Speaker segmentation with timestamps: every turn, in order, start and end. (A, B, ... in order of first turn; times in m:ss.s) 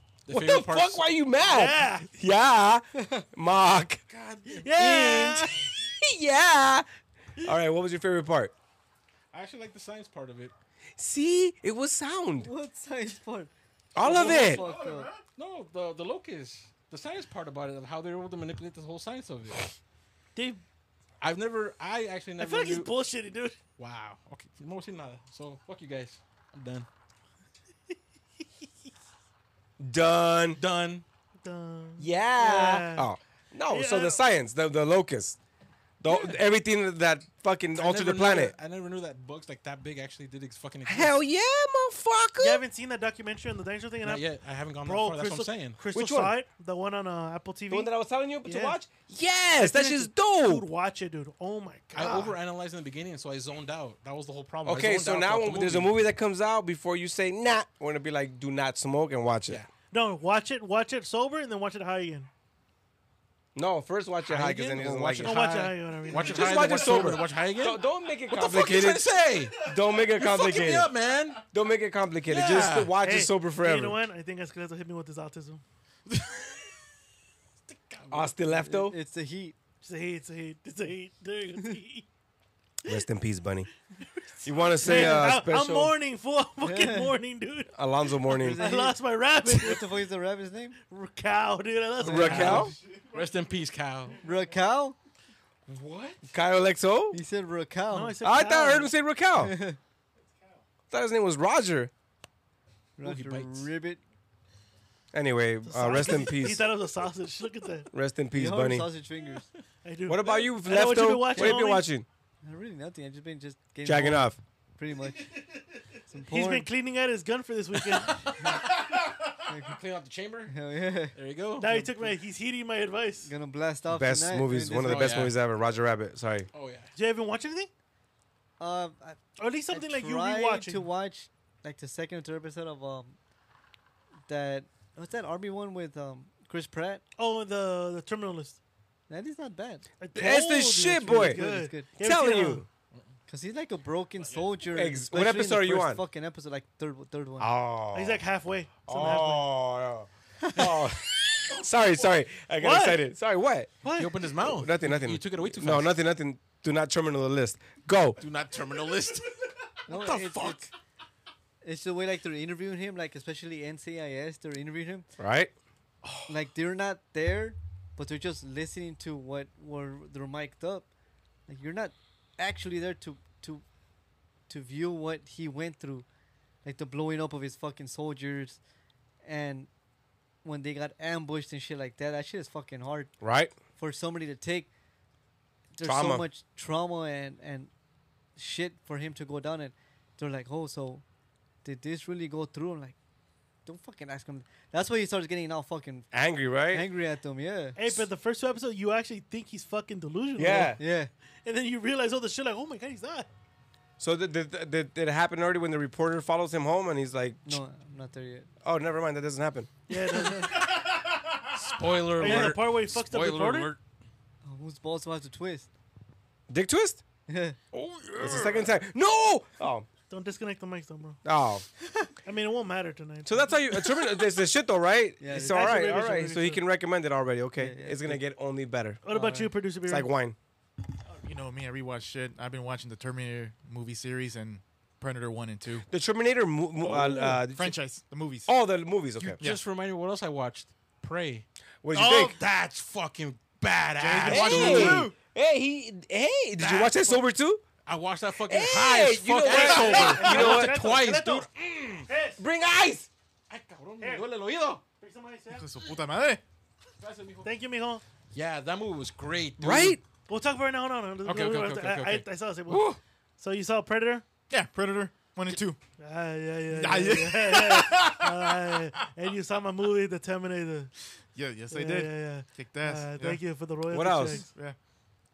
0:00.2-0:01.0 A
0:00.3-0:04.0 B
0:01.4-0:02.1 C
0:03.0-0:03.2 D
0:04.1-0:04.7 A
0:04.6-0:05.6 C
0:04.7-0:06.9 B
0:07.4-0:08.5 B
0:09.3-0:10.5 A
0:11.0-0:12.5 B
0:12.4-0:15.1 D
0:13.9-0:14.6 B
0:14.2-0:14.6 A
0:14.6-0:15.2 E
0:15.4-0:19.7 A
0:20.3-0:20.6 C
0:21.2-0:22.9 A
0:22.4-0:23.6 C
0:23.8-0:26.9 A
0:29.8-0:30.6 B
0:30.6-0:31.0 A
0:31.4-0:33.1 C
0:32.0-0:35.4 B
0:33.7-0:34.2 C
0:36.0-0:38.5 B
0:37.7-0:41.2 A
0:40.8-0:42.6 B
0:42.4-0:44.2 C
0:44.0-0:45.8 A
0:44.8-0:47.9 C
0:45.9-0:46.3 B
0:47.7-0:50.6 B
0:48.4-0:48.8 C
0:49.6-0:52.3 C
0:51.9-0:55.9 A
0:54.6-0:59.6 B
0:59.9-1:02.3 C
1:03.5-1:05.4 B
1:04.2-1:11.4 A
1:05.2-1:07.3 C
1:06.1-1:10.9 B
1:11.5-1:14.0 B
1:12.3-1:12.9 A
1:13.0-1:15.6 C
1:16.1-1:16.6 A
1:17.7-1:18.3 A
1:18.1-1:19.0 B
1:18.5-1:19.6 D
1:19.8-1:22.1 C
1:22.8-1:23.7 B
1:24.4-1:25.9 B
1:24.5-1:27.7 C
1:24.8-1:25.3 D
1:26.6-1:27.2 D
1:27.7-1:28.7 B
1:28.3-1:30.8 D
1:28.5-1:29.8 C
1:30.9-1:32.7 C
1:32.0-1:32.7 B
1:32.0-1:32.7 D
1:32.3-1:32.6 A
1:32.6-1:33.2 E
1:33.1-1:34.2 A
1:34.2-1:35.0 D
1:35.7-1:36.2 A
1:36.3-1:37.2 B
1:37.1-1:38.2 D
1:37.9-1:38.9 C
1:38.2-1:39.6 B
1:39.4-1:39.8 D
1:40.9-1:41.9 B
1:43.0-1:44.0 D
1:43.0-1:43.7 A
1:45.1-1:46.7 B
1:45.6-1:47.9 C
1:47.9-1:48.9 B
1:48.3-1:49.5 D
1:49.8-1:51.9 C
1:50.0-1:52.0 B
1:52.4-1:55.3 D
1:53.8-1:54.4 B
1:56.1-1:56.7 D
1:56.3-1:58.5 C
1:57.9-1:58.8 A
1:59.4-1:59.8 D
1:59.6-2:00.5 A
2:00.5-2:01.1 D
2:01.1-2:01.9 A
2:01.6-2:03.3 C
2:03.2-2:05.2 D
2:03.9-2:06.5 B
2:04.8-2:05.3 A
2:06.5-2:06.9 A
2:07.0-2:07.7 C
2:08.6-2:13.2 D
2:09.4-2:10.8 C
2:14.3-2:17.0 D
2:17.2-2:18.6 C
2:19.1-2:19.9 D
2:20.0-2:22.6 C
2:20.1-2:21.4 B
2:21.1-2:21.9 D
2:22.0-2:22.7 B
2:23.3-2:27.5 D
2:24.7-2:26.0 B
2:27.4-2:28.2 B
2:27.9-2:29.5 C
2:28.9-2:33.7 B
2:32.6-2:33.0 C
2:33.8-2:34.1 C
2:34.0-2:36.0 A
2:34.4-2:38.2 B
2:38.2-2:40.7 A
2:39.9-2:40.6 D
2:41.6-2:45.1 D
2:45.2-2:45.5 B
2:46.3-2:50.9 D
2:51.5-2:53.6 D
2:54.5-2:56.0 D
2:56.6-2:58.6 D
2:59.2-2:59.7 D
3:00.4-3:03.1 D
3:03.2-3:03.5 B
3:03.8-3:04.7 D
3:05.7-3:07.7 D
3:05.8-3:06.2 B
3:08.4-3:11.0 D
3:11.6-3:13.0 D
3:13.6-3:16.1 D
3:16.1-3:16.8 B
3:16.7-3:17.8 D
3:17.8-3:20.8 C
3:20.4-3:20.8 B
3:20.5-3:21.1 D
3:21.4-3:23.3 C
3:24.0-3:27.6 B
3:27.4-3:28.5 D
3:28.6-3:29.7 B
3:29.9-3:30.9 C
3:31.6-3:33.8 A
3:32.2-3:33.7 C
3:34.4-3:35.7 D
3:36.5-3:37.0 B
3:37.3-3:37.6 D
3:37.7-3:38.6 A
3:38.2-3:39.9 B
3:40.1-3:41.2 C
3:41.2-3:41.6 B
3:42.2-3:43.6 C
3:43.2-3:49.0 B
3:45.2-3:46.0 D
3:45.3-3:46.6 C
3:47.6-3:48.2 D
3:49.0-3:50.1 C
3:49.1-3:49.5 D
3:49.8-3:50.4 B
3:51.2-3:55.8 E
3:55.9-3:57.8 B
3:56.8-3:58.5 E
3:58.5-3:59.4 B
3:59.2-3:59.6 E
3:59.4-4:05.0 A
4:01.8-4:02.3 B
4:02.0-4:02.3 E
4:04.0-4:05.2 E
4:04.2-4:07.6 B
4:06.6-4:07.2 A
4:07.8-4:12.1 A
4:08.4-4:10.8 B
4:09.5-4:11.5 C
4:09.5-4:10.1 E
4:12.1-4:12.4 C
4:12.4-4:13.1 B
4:13.5-4:14.8 A
4:14.0-4:14.3 C
4:15.0-4:15.8 C
4:15.5-4:16.4 E
4:17.0-4:17.5 A
4:17.4-4:18.0 C
4:18.3-4:20.0 A
4:19.6-4:20.0 B
4:20.3-4:24.2 C
4:21.2-4:23.0 A
4:24.5-4:25.8 E
4:26.0-4:30.9 C
4:26.7-4:29.0 E
4:31.3-4:33.4 E
4:31.7-4:34.5 C
4:33.9-4:34.4 B
4:34.5-4:34.8 E